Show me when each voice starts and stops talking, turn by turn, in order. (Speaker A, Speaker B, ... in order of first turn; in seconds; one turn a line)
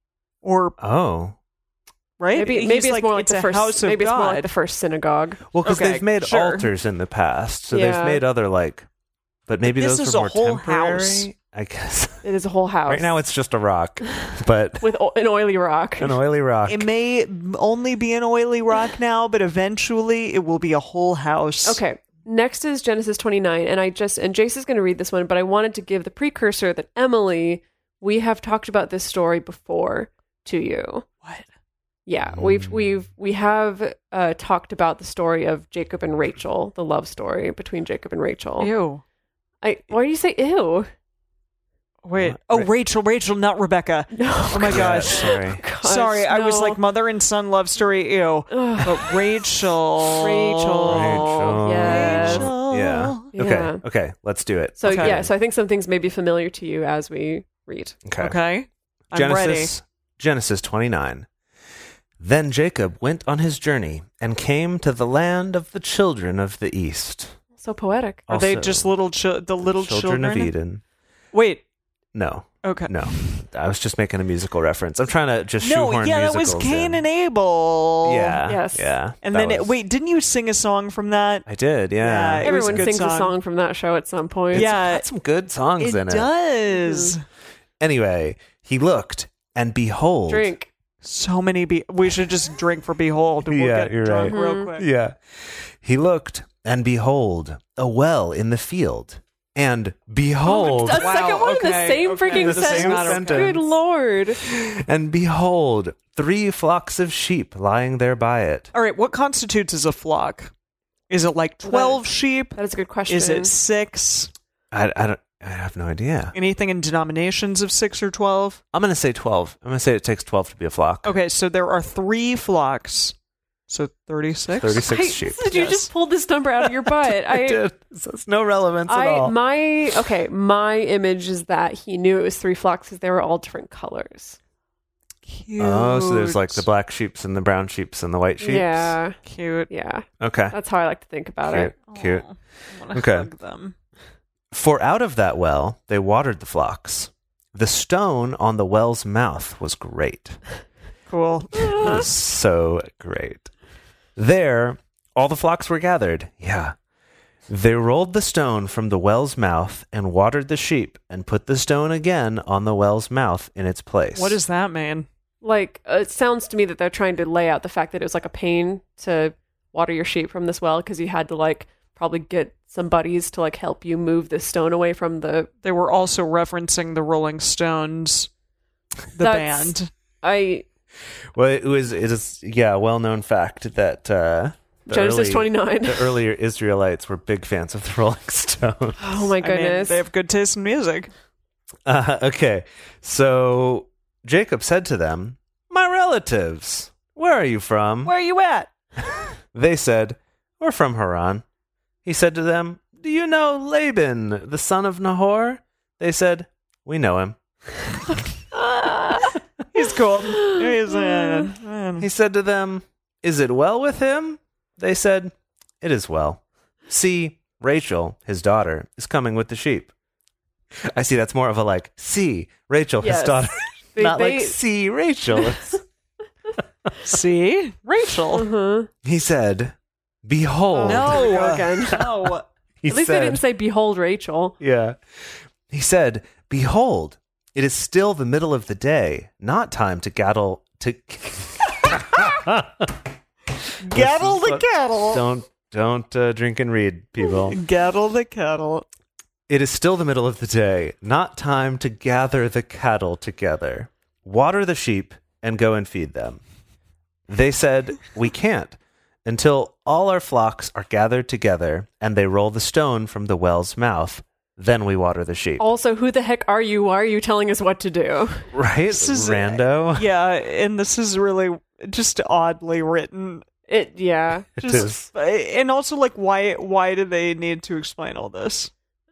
Speaker A: 0.4-0.8
Speaker B: 0.8-1.4
Speaker A: 2.2-4.5
Speaker C: 2.3-5.4
Speaker B: 5.5-8.9
Speaker A: 5.6-6.7
Speaker C: 7.7-8.2
Speaker B: 9.5-12.3
Speaker A: 9.6-11.3
Speaker C: 12.2-13.1
Speaker B: 12.9-14.8
Speaker C: 14.8-16.2
Speaker B: 16.0-16.9
Speaker A: 16.7-21.8
Speaker C: 21.6-31.1
Speaker C: 32.1-38.7
Speaker B: 32.4-32.7
Speaker A: 38.6-39.0
Speaker C: 39.6-40.9
Speaker A: 42.0-53.3
Speaker B: 42.2-42.7
Speaker C: 44.1-46.8
Speaker B: 44.7-45.6
Speaker C: 48.5-49.2
Speaker C: 50.2-52.5
Speaker B: 50.9-55.3
Speaker C: 53.3-53.8
Speaker C: 54.8-58.0
Speaker A: 54.9-55.1
Speaker B: 58.0-58.4
Speaker A: 58.2-59.7
Speaker B: 59.1-61.3
Speaker B: 62.2-67.4
Speaker C: 67.6-68.3
Speaker B: 68.3-68.9
Speaker A: 68.3-70.5
Speaker B: 69.6-70.8
Speaker A: 71.3-71.6
Speaker B: 72.1-77.0
Speaker A: 72.6-73.4
Speaker A: 75.6-78.4
Speaker B: 78.0-79.8
Speaker C: 78.5-78.9
Speaker A: 79.2-81.5
Speaker B: 81.5-82.8
Speaker A: 82.0-83.3
Speaker C: 82.4-84.7
Speaker B: 84.5-86.3
Speaker A: 84.5-85.1
Speaker A: 85.8-87.2
Speaker C: 86.7-87.1
Speaker B: 87.8-90.5
Speaker C: 90.3-90.7
Speaker A: 91.0-94.9
Speaker B: 93.5-101.3
Speaker C: 94.2-94.7
Speaker C: 100.5-104.5
Speaker A: 100.6-103.6
Speaker B: 102.3-103.6
Speaker B: 104.4-108.7
Speaker A: 108.7-110.5
Speaker A: 111.1-114.3
Speaker C: 111.6-112.0
Speaker C: 112.5-113.5
Speaker B: 114.7-116.3
Speaker A: 116.3-118.6
Speaker B: 118.7-121.2
Speaker A: 121.0-123.2
Speaker A: 123.7-124.9
Speaker B: 124.6-125.5
Speaker C: 124.9-127.7
Speaker A: 125.5-125.9
Speaker B: 127.1-129.4
Speaker C: 128.9-134.4
Speaker A: 135.3-136.7
Speaker B: 135.6-139.0
Speaker C: 138.4-139.2
Speaker A: 139.2-139.7
Speaker C: 139.7-141.7
Speaker B: 140.2-140.6
Speaker B: 141.5-142.2
Speaker A: 141.9-143.8
Speaker B: 142.9-143.3
Speaker B: 144.5-150.4
Speaker A: 151.1-152.1
Speaker B: 151.7-153.5
Speaker B: 154.2-156.8
Speaker B: 157.5-164.4
Speaker A: 164.2-165.1
Speaker C: 165.4-175.5
Speaker A: 175.6-178.3
Speaker A: 179.1-179.9
Speaker C: 179.2-180.7
Speaker B: 181.3-189.0
Speaker C: 184.9-186.2
Speaker C: 189.0-190.0
Speaker A: 189.4-191.1
Speaker B: 191.9-198.1
Speaker A: 198.0-198.7
Speaker B: 199.5-201.4
Speaker B: 202.1-207.4
Speaker C: 208.9-209.2
Speaker A: 209.7-212.1
Speaker B: 212.0-219.9
Speaker B: 220.9-225.8
Speaker C: 223.0-224.6
Speaker C: 225.4-225.8
Speaker A: 227.0-228.5
Speaker C: 228.3-228.9
Speaker B: 229.0-233.4
Speaker C: 230.7-232.1
Speaker A: 230.8-232.4
Speaker C: 232.9-234.6
Speaker B: 234.6-243.0
Speaker A: 243.8-245.2
Speaker B: 243.9-247.6
Speaker A: 247.5-248.9
Speaker B: 249.5-256.4
Speaker B: 257.3-265.6
Speaker C: 265.6-268.5
Speaker B: 268.5-270.1
Speaker A: 268.9-273.4
Speaker C: 273.7-274.9
Speaker B: 274.6-275.1
Speaker A: 274.6-278.7